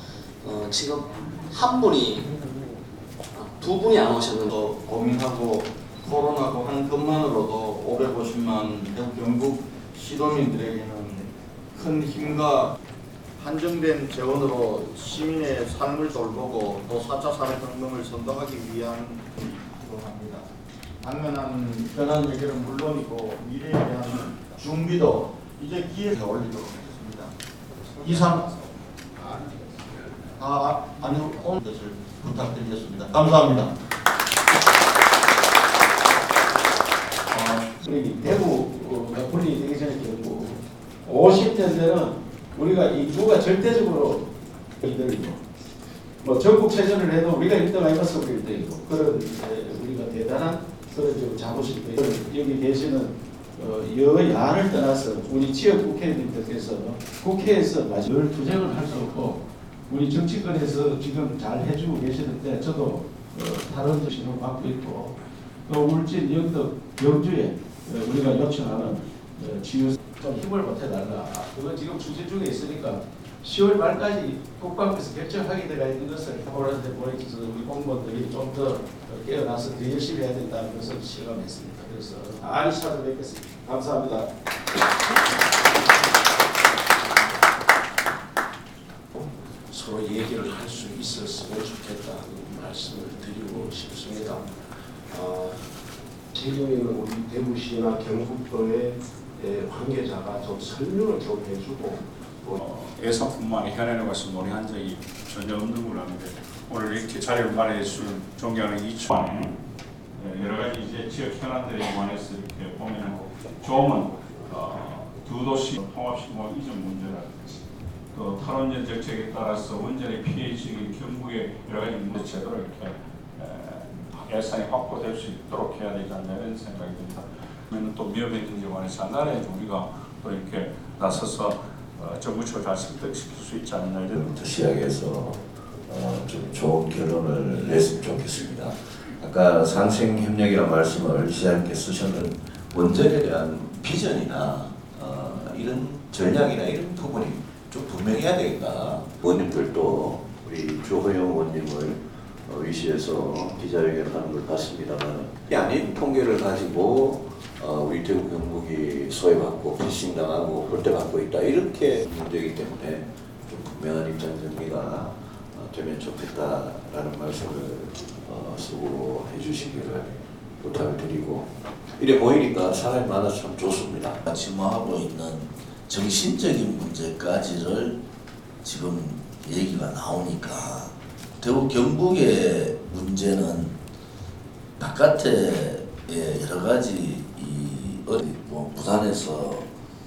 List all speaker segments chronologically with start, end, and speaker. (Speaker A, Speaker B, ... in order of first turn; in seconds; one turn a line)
Speaker A: 0.4-2.3
Speaker A: 3.4-4.5
Speaker B: 4.5-12.7
Speaker B: 13.4-20.5
Speaker B: 21.0-27.3
Speaker B: 28.0-28.5
Speaker B: 30.4-33.7
Speaker C: 37.3-44.3
Speaker C: 44.8-45.4
Speaker C: 46.2-84.3
Speaker C: 89.2-94.5
Speaker C: 95.1-95.5
Speaker D: 96.3-98.9
Speaker C: 96.4-97.9
Speaker C: 99.4-101.8
Speaker D: 99.5-101.9
Speaker E: 102.6-109.5
Speaker E: 110.2-117.6
Speaker E: 118.1-134.2
Speaker F: 134.2-174.2
Speaker G: 174.3-178.0
Speaker G: 178.6-183.8
Speaker G: 184.8-189.7